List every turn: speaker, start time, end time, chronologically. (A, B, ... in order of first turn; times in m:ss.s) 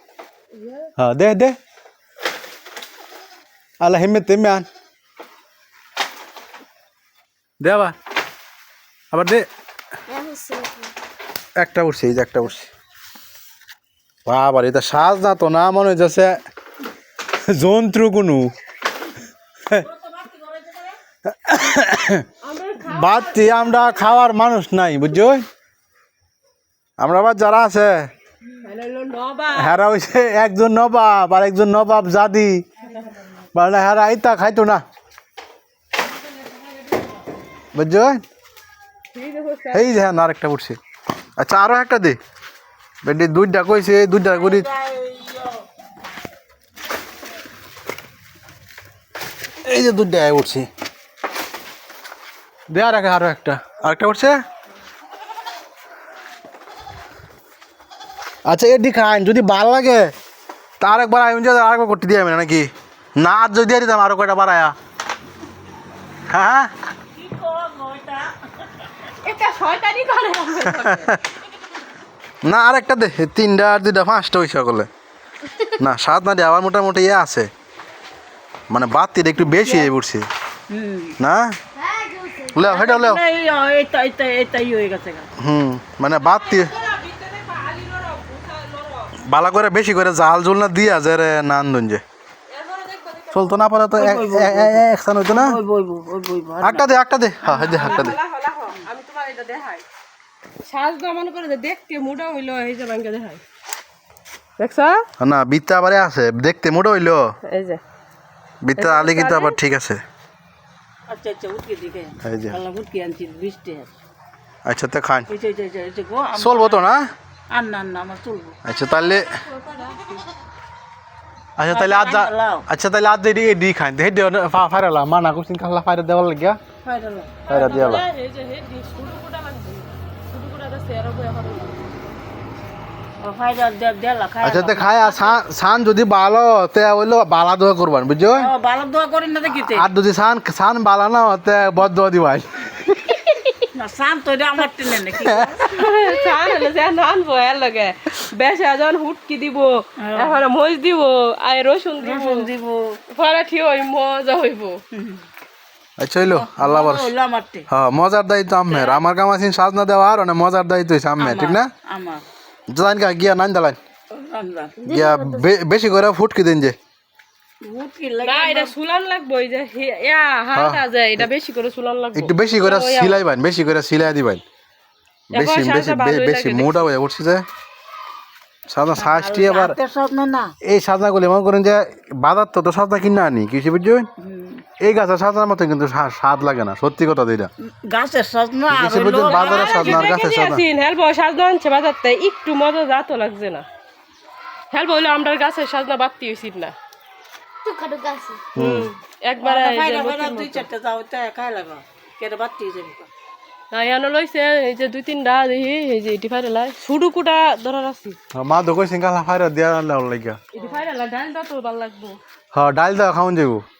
0:00.5-0:00.9 A
0:01.0-0:01.6 B
0:03.8-0:04.7 B
0:07.6-0:07.9 B
0:09.1-0:09.4 B
0:10.2-0:10.7 A
0:11.6-0:12.7 B
0:14.2-0:16.3 B
0:17.5-0:18.5 B
0:19.8-0:21.0 C
0:21.3-0:22.2 B
0:22.4-0:24.2 A
0:22.9-0:25.4 B
0:27.0-0:28.1 B
0:28.6-0:29.7 A
0:29.5-0:32.6 B
0:33.5-0:34.8 B
0:37.7-0:38.2 B
0:39.1-0:39.9 A
0:39.7-0:40.8 B
0:41.4-0:42.2 B
0:43.0-0:44.7 B
0:44.2-0:45.6 C
0:49.6-0:50.7 B
0:52.7-0:54.3 B
0:58.5-1:00.1 B
1:00.8-1:04.7 B
1:06.3-1:06.7 B
1:07.1-1:08.4 C
1:09.2-1:11.1 A
1:10.6-1:11.2 B
1:12.4-1:14.9 B
1:15.6-1:17.5 B
1:18.7-1:20.2 B
1:19.4-1:19.9 C
1:20.7-1:21.2 C
1:21.2-1:21.6 B
1:21.8-1:22.5 A
1:22.5-1:23.2 B
1:22.6-1:25.3 C
1:25.4-1:26.7 B
1:26.2-1:29.1 A
1:29.2-1:32.0 B
1:32.5-1:33.5 A
1:33.3-1:35.6 B
1:33.9-1:36.9 C
1:36.6-1:38.2 B
1:37.4-1:37.8 C
1:37.6-1:39.8 A
1:40.6-1:43.4 A
1:44.6-1:45.0 A
1:45.2-1:47.2 B
1:47.4-1:47.8 A
1:48.6-1:50.0 B
1:48.8-1:49.6 A
1:51.1-1:53.9 C
1:52.2-1:52.6 B
1:54.6-1:55.3 B
1:55.3-1:56.8 C
1:56.4-1:57.1 B
1:57.5-1:58.6 C
1:58.6-1:59.3 B
1:59.0-2:00.1 A
2:01.6-2:06.6 B
2:01.7-2:02.6 C
2:06.8-2:07.5 C
2:07.4-2:11.8 A
2:07.5-2:08.0 B
2:13.2-2:15.3 C
2:14.4-2:18.5 B
2:18.3-2:19.9 C
2:19.5-2:23.1 B
2:23.7-2:25.7 C
2:25.2-2:25.7 B
2:25.7-2:32.5 A
2:30.0-2:30.4 C
2:32.0-2:33.0 C
2:33.1-2:34.8 A
2:34.9-2:35.2 C
2:36.0-2:37.1 B
2:36.2-2:37.7 C
2:37.7-2:41.7 B
2:38.7-2:39.0 A
2:41.2-2:42.2 C
2:42.7-2:43.8 B
2:44.1-2:45.0 C
2:44.8-2:46.8 B
2:44.9-2:45.4 A
2:47.6-2:48.7 C
2:48.2-2:53.2 A
2:50.5-2:51.3 B
2:52.1-2:54.4 B
2:55.3-2:57.4 B
2:55.3-2:56.9 A
2:58.7-2:59.7 B
2:59.0-3:00.5 C
3:00.6-3:04.1 B
3:04.2-3:04.6 C
3:04.8-3:07.5 B
3:07.6-3:10.1 C
3:08.7-3:10.6 B
3:09.3-3:13.6 A
3:14.7-3:16.7 A
3:17.6-3:20.6 A
3:18.5-3:18.9 B
3:19.4-3:23.1 C
3:23.7-3:28.2 A
3:28.3-3:30.4 B
3:30.5-3:32.2 A
3:30.6-3:30.8 C
3:32.5-3:33.6 B